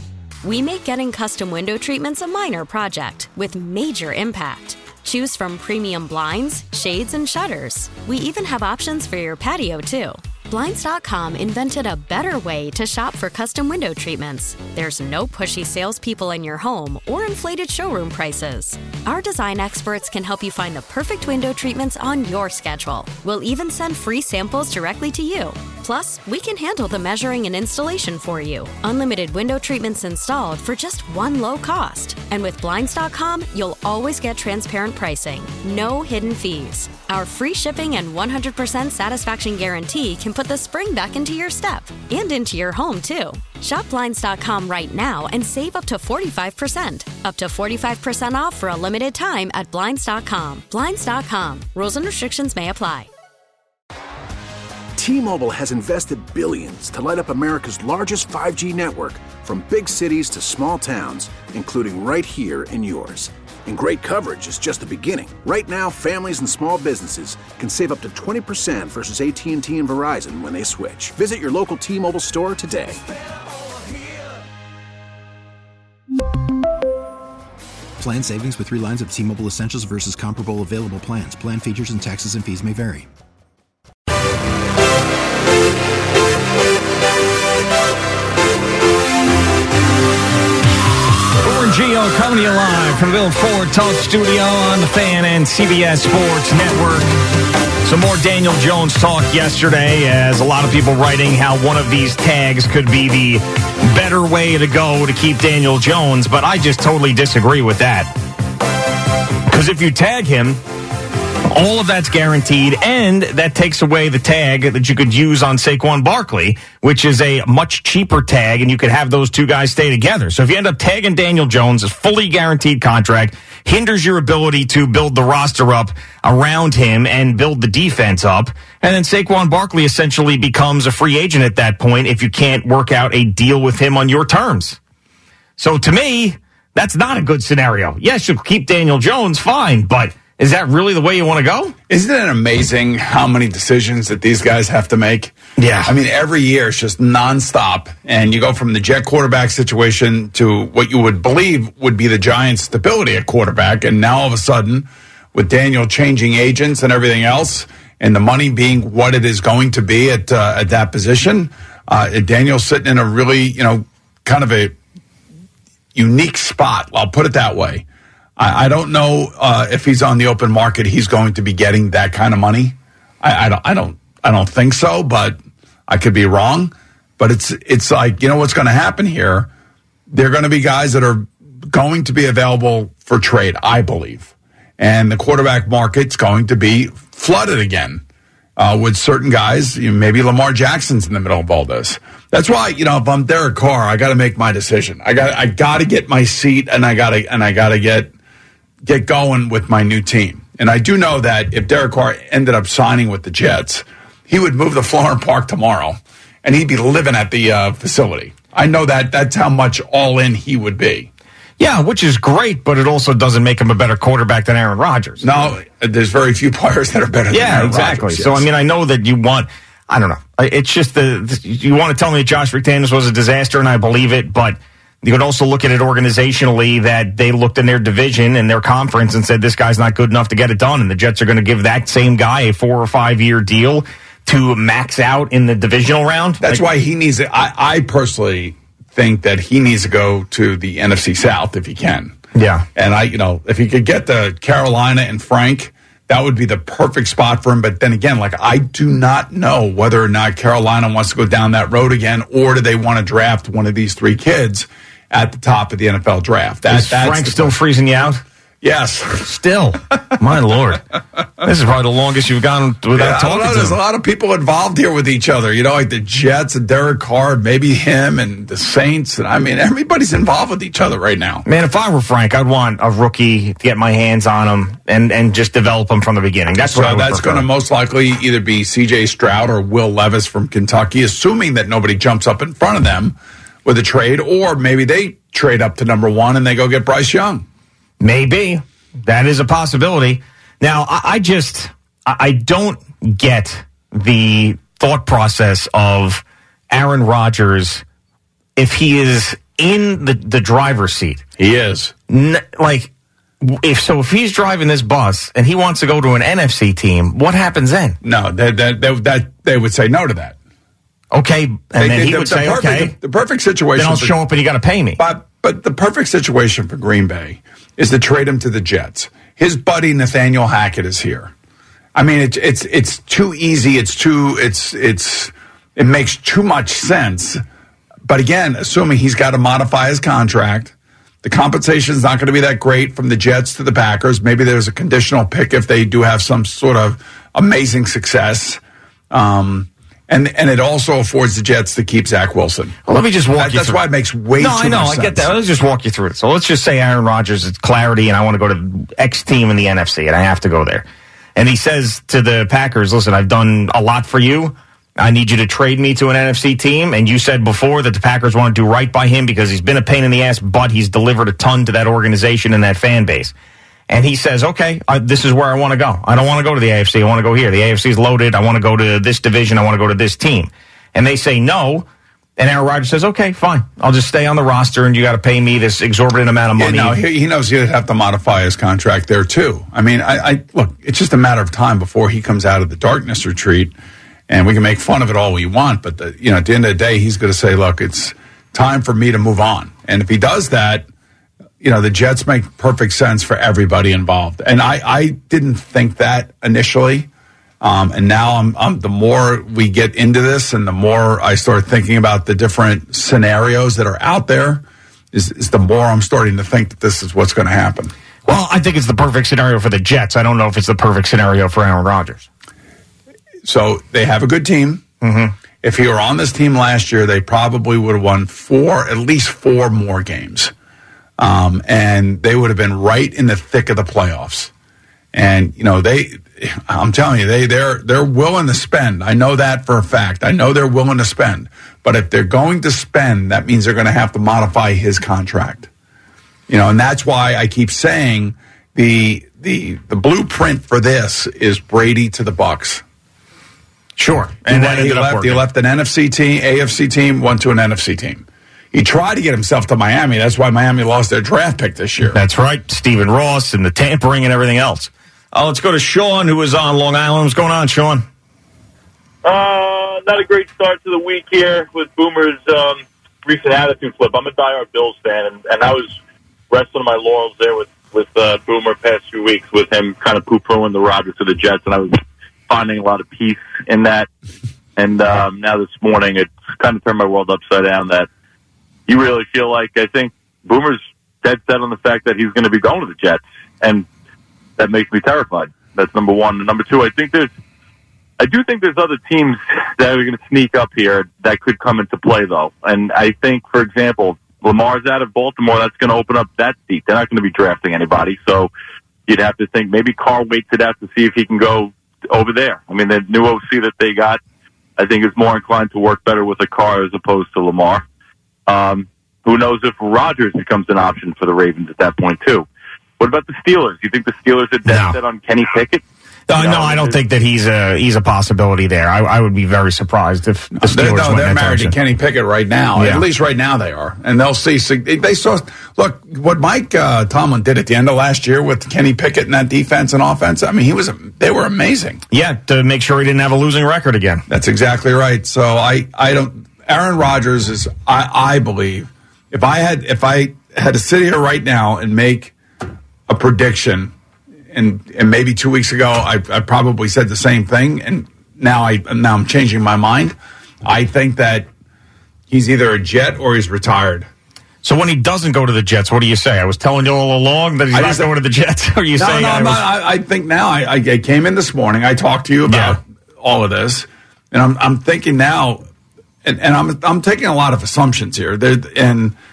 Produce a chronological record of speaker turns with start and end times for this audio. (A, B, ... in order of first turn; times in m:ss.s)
0:00.4-0:53.1 A
0:55.0-1:13.0 B
1:18.0-1:23.1 C
1:31.4-1:37.1 D
1:37.8-1:48.1 D
1:49.5-1:50.6 D
1:51.5-2:14.8 D
2:15.6-2:21.7 D
2:21.9-2:44.8 E
2:25.6-2:25.9 D
2:45.9-2:47.8 E
2:48.4-2:59.5 E
3:00.1-3:08.0 E
3:08.6-3:18.1 E
3:18.8-3:31.1 E
3:31.6-3:35.3 D
3:35.2-3:38.4 E
3:37.3-3:56.6 D
3:56.4-4:02.2 E
4:02.3-4:02.7 D
4:02.8-4:17.6 E
4:16.7-4:18.2 D
4:18.6-4:19.2 E
4:19.2-4:20.8 D
4:21.4-4:23.8 D
4:22.9-4:31.4 E
4:31.4-4:37.4 D
4:36.6-4:47.4 E
4:48.0-4:57.8 D
4:58.6-5:01.2 D
5:01.4-5:01.9 E
5:02.1-5:02.9 D
5:03.4-5:08.0 D
5:08.0-5:10.4 E
5:11.1-5:12.9 D
5:11.8-5:14.2 E
5:13.8-5:15.0 D
5:15.0-5:21.3 E
5:21.9-5:27.4 E
5:28.0-5:38.6 E
5:39.1-5:42.8 E
5:42.8-5:43.8 D
5:43.3-5:45.3 E
5:44.4-6:03.3 D
6:03.9-6:11.8 D
6:12.4-6:17.0 D
6:16.6-6:23.7 E
6:24.3-6:30.9 E
6:31.6-6:37.1 E
6:37.6-6:47.9 E
6:48.2-6:52.3 D
6:53.4-6:54.8 E
6:55.0-6:55.3 D
6:55.6-7:00.5 E
7:01.2-7:04.5 E
7:05.1-7:15.7 E
7:16.5-7:22.8 E
7:24.0-7:25.4 D
7:24.4-7:32.2 E
7:32.1-7:38.0 D
7:39.2-7:45.9 F
7:46.5-7:54.1 F
7:54.8-7:58.1 F
7:58.9-8:03.8 F
8:04.6-8:07.3 F
8:08.2-8:18.5 F
8:19.1-8:24.2 F
8:24.8-8:27.8 F
8:28.5-8:32.4 F
8:33.0-8:37.0 F
8:34.6-8:35.0 D
8:36.3-8:41.7 D
8:40.6-8:52.0 E
8:42.8-8:43.0 D
8:52.1-8:54.2 D
8:54.3-9:02.3 E
9:03.1-9:03.9 E
9:04.5-9:11.5 E
9:12.3-9:14.1 E
9:14.6-9:19.6 D
9:17.7-9:18.1 E
9:19.0-9:25.6 E
9:22.4-9:22.8 D
9:26.2-9:29.2 E